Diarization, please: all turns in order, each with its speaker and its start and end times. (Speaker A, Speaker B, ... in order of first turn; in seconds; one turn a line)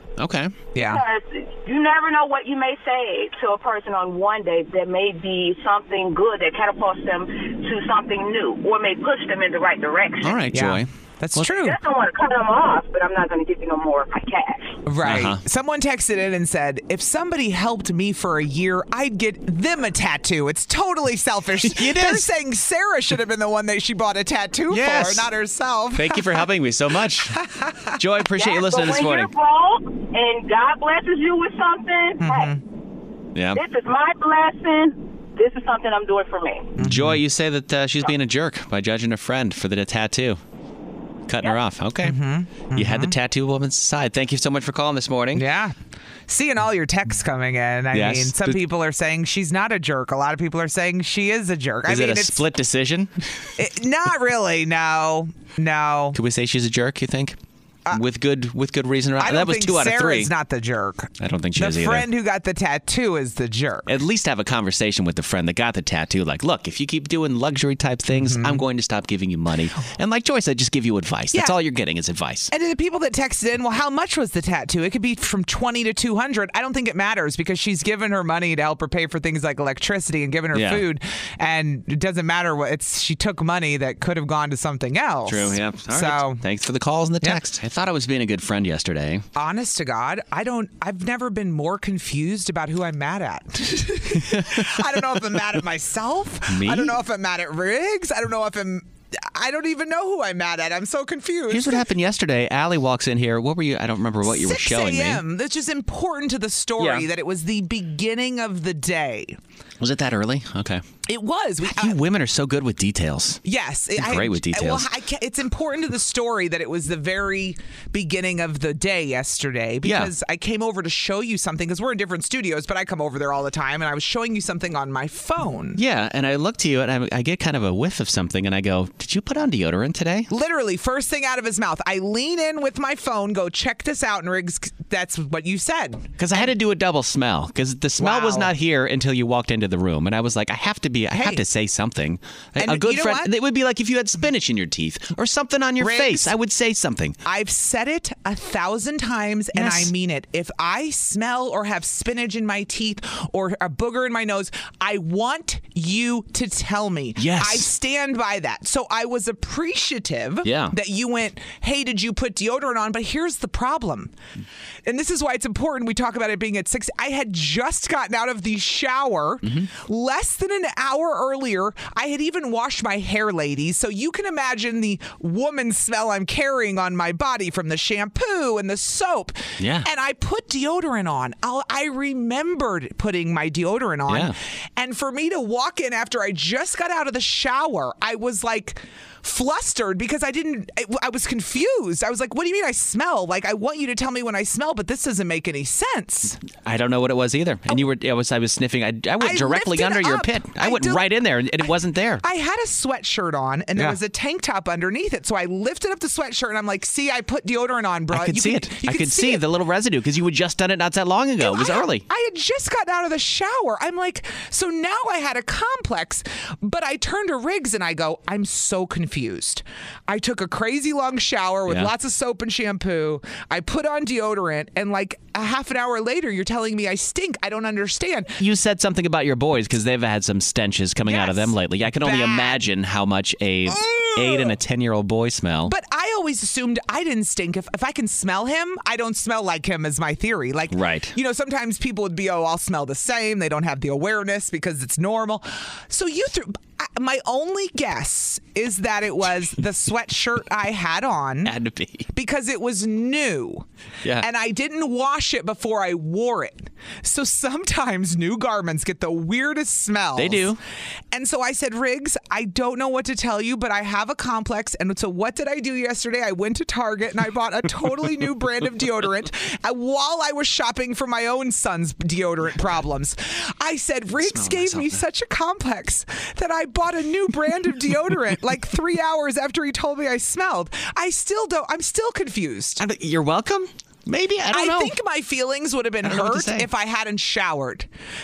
Speaker A: 0.2-0.5
Speaker B: 0.8-1.0
Speaker C: 0.8-10.4
Speaker A: 10.2-11.5
Speaker B: 10.5-11.8
Speaker C: 11.5-14.8
Speaker B: 14.9-26.4
Speaker A: 15.0-15.4
Speaker A: 21.6-22.3
Speaker A: 24.7-25.3
Speaker A: 25.9-27.4
Speaker B: 27.4-28.0
Speaker A: 28.0-29.3
Speaker C: 28.4-32.6
Speaker B: 32.2-32.6
Speaker A: 33.4-33.6
Speaker C: 33.5-36.8
Speaker B: 36.8-37.2
Speaker A: 36.8-40.4
Speaker A: 41.3-42.2
Speaker B: 42.0-43.1
Speaker A: 42.7-45.4
Speaker B: 45.4-45.8
Speaker B: 46.3-52.4
Speaker A: 47.9-48.6
Speaker A: 51.9-53.5
Speaker B: 53.6-56.2
Speaker A: 56.1-57.4
Speaker A: 57.9-60.3
Speaker B: 59.2-63.9
Speaker A: 61.2-62.1
Speaker A: 63.9-72.5
Speaker B: 68.2-68.6
Speaker B: 72.5-86.4
Speaker A: 80.5-80.8
Speaker A: 85.3-89.2
Speaker B: 89.3-101.8
Speaker A: 94.2-94.8
Speaker A: 96.5-97.0
Speaker A: 101.5-105.2
Speaker B: 104.3-109.4
Speaker A: 106.8-107.1
Speaker A: 109.8-110.8
Speaker B: 111.1-112.0
Speaker A: 111.7-113.4
Speaker B: 113.4-125.8
Speaker A: 114.0-114.9
Speaker A: 119.8-120.1
Speaker A: 125.8-130.3
Speaker B: 130.3-136.5
Speaker A: 136.2-147.2
Speaker B: 138.0-138.5
Speaker B: 141.1-141.4
Speaker B: 142.6-143.3
Speaker B: 145.8-146.3
Speaker B: 147.2-164.1
Speaker A: 149.5-149.9
Speaker A: 157.2-157.7
Speaker A: 160.4-160.7
Speaker B: 164.8-196.4
Speaker A: 169.4-169.7
Speaker A: 179.6-179.9
Speaker A: 184.1-184.3
Speaker A: 196.6-202.2
Speaker B: 199.2-201.1
Speaker B: 201.6-209.4
Speaker A: 208.1-212.0
Speaker B: 211.4-228.4
Speaker A: 228.4-235.7
Speaker B: 231.1-232.6
Speaker B: 233.7-234.5
Speaker B: 235.7-251.5
Speaker A: 240.7-241.1
Speaker A: 251.4-252.1
Speaker B: 252.1-253.7
Speaker B: 254.2-260.5
Speaker A: 260.2-260.6
Speaker B: 261.1-282.8
Speaker A: 274.2-275.0
Speaker A: 282.8-284.9
Speaker B: 284.5-287.9
Speaker A: 286.0-286.7